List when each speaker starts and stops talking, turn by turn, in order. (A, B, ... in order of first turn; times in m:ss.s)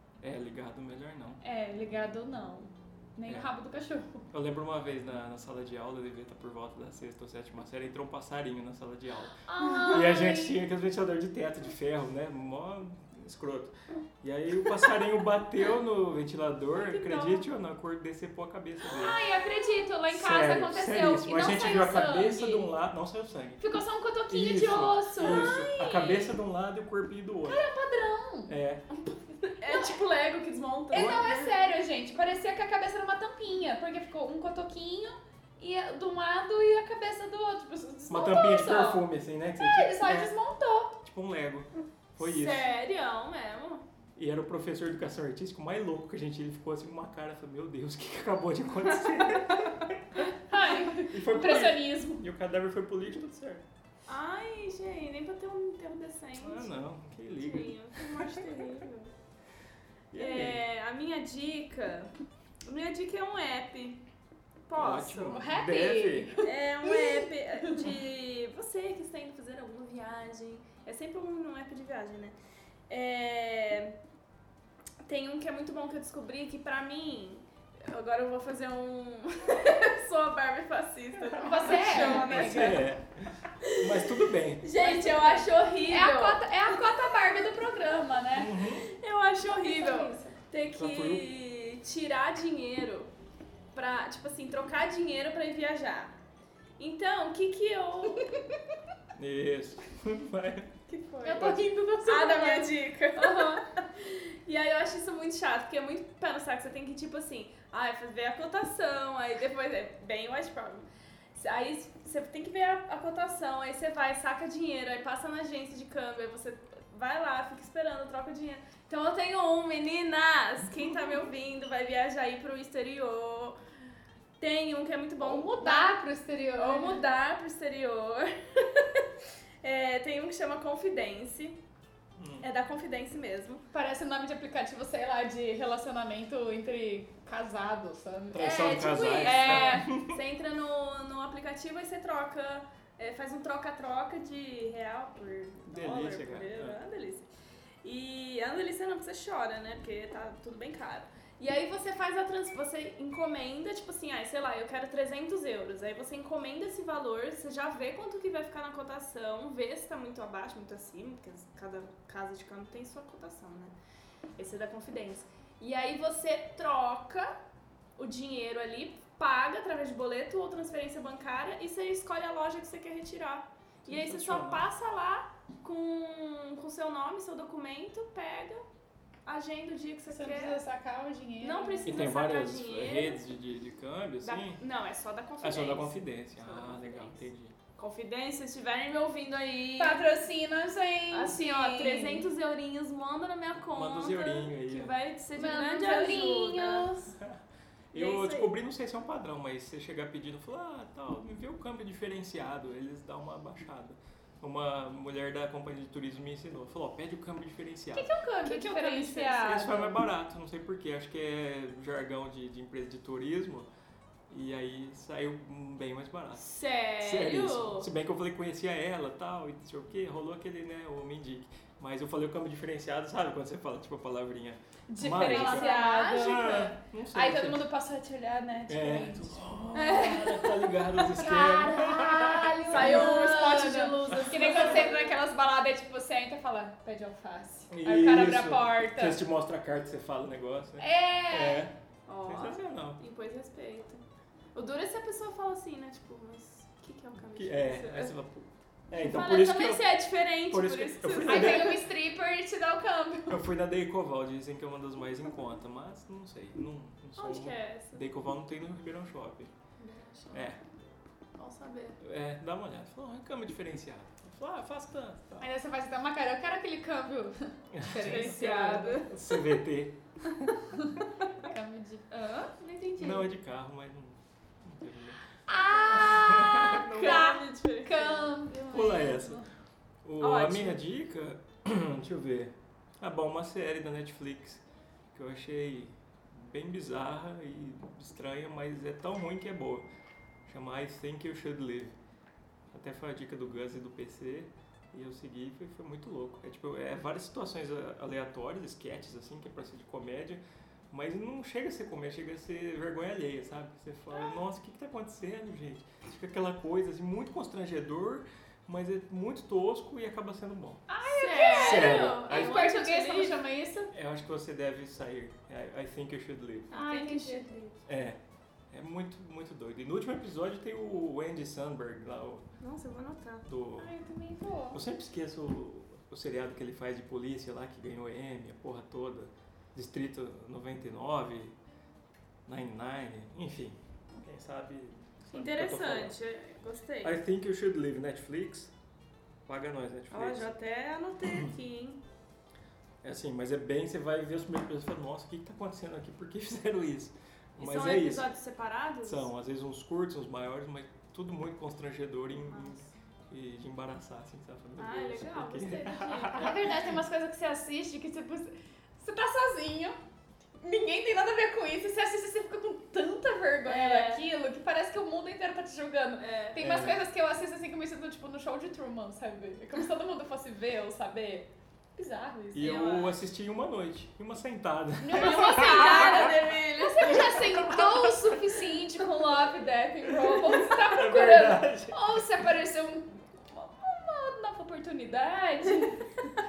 0:00.2-0:01.4 A
0:01.4-0:04.3 B
0:04.3-0:19.2 A
0:09.5-0:10.6 B
0:09.8-0:10.0 C
0:16.8-0:17.4 C
0:16.9-0:17.3 B
0:18.9-0:22.7 B
0:20.1-0:23.6 A
0:23.6-0:26.4 B
0:24.3-0:27.6 A
0:25.2-0:25.5 C
0:27.5-0:28.6 B
0:28.5-0:28.8 A
0:29.4-0:31.4 C
0:29.6-0:29.9 B
0:30.9-0:39.1 B
0:31.0-0:31.5 A
0:38.1-0:40.3 A
0:39.6-0:41.0 B
0:41.0-0:42.7 A
0:42.2-0:43.8 C
0:44.2-0:50.3 A
0:50.3-0:52.2 B
0:51.0-0:53.6 A
0:54.1-0:56.8 C
0:56.4-0:58.3 A
0:57.4-0:59.1 C
1:00.1-1:00.6 A
1:00.2-1:02.1 C
1:02.7-1:04.0 C
1:04.7-1:05.4 C
1:04.8-1:06.3 A
1:05.3-1:07.7 B
1:06.4-1:12.4 C
1:12.9-1:14.0 C
1:15.0-1:22.8 C
1:21.4-1:22.7 B
1:21.4-1:24.6 A
1:23.6-1:24.0 C
1:24.6-1:26.8 C
1:24.7-1:28.6 B
1:28.3-1:28.9 A
1:28.9-1:33.1 C
1:29.6-1:30.4 B
1:30.8-1:31.3 A
1:33.7-1:36.2 C
1:36.8-1:38.4 C
1:39.2-1:40.7 A
1:40.9-2:03.6 C
1:41.2-1:43.6 B
2:04.4-2:05.9 C
2:05.2-2:07.0 B
2:06.6-2:09.1 C
2:09.6-2:11.6 C
2:12.2-2:12.5 A
2:12.4-2:13.6 C
2:13.7-2:19.9 B
2:18.3-2:20.2 A
2:18.4-2:27.3 C
2:25.7-2:26.8 A
2:27.8-2:43.8 C
2:44.4-2:47.4 C
2:48.0-2:58.6 C
2:53.9-2:54.6 A
2:59.2-3:00.6 C
3:00.1-3:02.1 B
3:01.4-3:03.2 C
3:01.8-3:04.6 A
3:04.2-3:10.0 C
3:05.4-3:07.6 A
3:09.8-3:12.3 B
3:11.1-3:17.1 C
3:13.7-3:15.0 A
3:15.4-3:17.1 B
3:17.9-3:28.1 A
3:17.9-3:18.5 C
3:28.0-3:30.0 B
3:28.4-3:29.4 C
3:29.3-3:33.7 A
3:34.3-3:36.5 A
3:36.4-3:37.9 C
3:37.0-3:47.6 A
3:44.9-3:59.2 B
3:45.2-3:46.2 C
3:48.7-3:53.2 A
3:49.7-3:50.3 C
3:52.7-3:55.2 C
3:54.1-3:54.8 A
3:57.7-4:01.7 A
4:00.8-4:01.7 B
4:02.1-4:04.0 C
4:02.3-4:03.0 A
4:04.6-4:08.2 C
4:07.3-4:09.8 A
4:09.0-4:11.7 C
4:10.5-4:11.8 A
4:11.2-4:13.4 B
4:13.3-4:19.5 A
4:17.2-4:18.2 C
4:19.8-4:20.2 B
4:20.1-4:20.4 C
4:20.3-4:20.6 A
4:21.4-4:22.0 C
4:22.0-4:25.5 A
4:25.4-4:29.1 B
4:27.7-4:30.8 A
4:28.0-4:29.1 C
4:30.8-4:32.5 B
4:32.5-4:33.3 C
4:33.0-4:35.2 A
4:35.5-4:39.5 B
4:35.6-4:36.4 C
4:35.9-4:37.3 A
4:36.9-4:39.1 C
4:38.7-4:39.4 A
4:40.0-4:44.6 A
4:40.2-4:40.8 C
4:45.1-4:49.9 A
4:50.5-4:52.0 A
4:52.7-5:10.9 A
5:10.9-5:13.9 B
5:11.1-5:13.4 C
5:11.4-5:12.6 A
5:13.9-5:16.7 A
5:16.7-5:17.7 B
5:16.7-5:17.7 C
5:17.9-5:18.2 A
5:18.7-5:22.4 A
5:22.6-5:23.4 C
5:23.4-5:23.9 A
5:23.8-5:24.8 B
5:24.7-5:31.6 A
5:32.5-5:36.2 A
5:35.3-5:37.2 C
5:37.0-5:38.7 A
5:39.5-5:40.5 A
5:40.1-5:42.0 C
5:43.0-5:48.3 A
5:47.6-5:49.3 C
5:49.0-5:56.7 A
5:52.4-5:52.9 C
5:54.8-5:56.6 C
5:56.4-6:00.0 B
6:00.6-6:12.9 B
6:03.6-6:04.2 C
6:06.2-6:06.6 C
6:06.6-6:07.0 A
6:12.5-6:16.3 A
6:12.6-6:13.2 C
6:15.0-6:26.2 B
6:15.1-6:17.4 C
6:17.2-6:18.1 A
6:20.2-6:22.0 A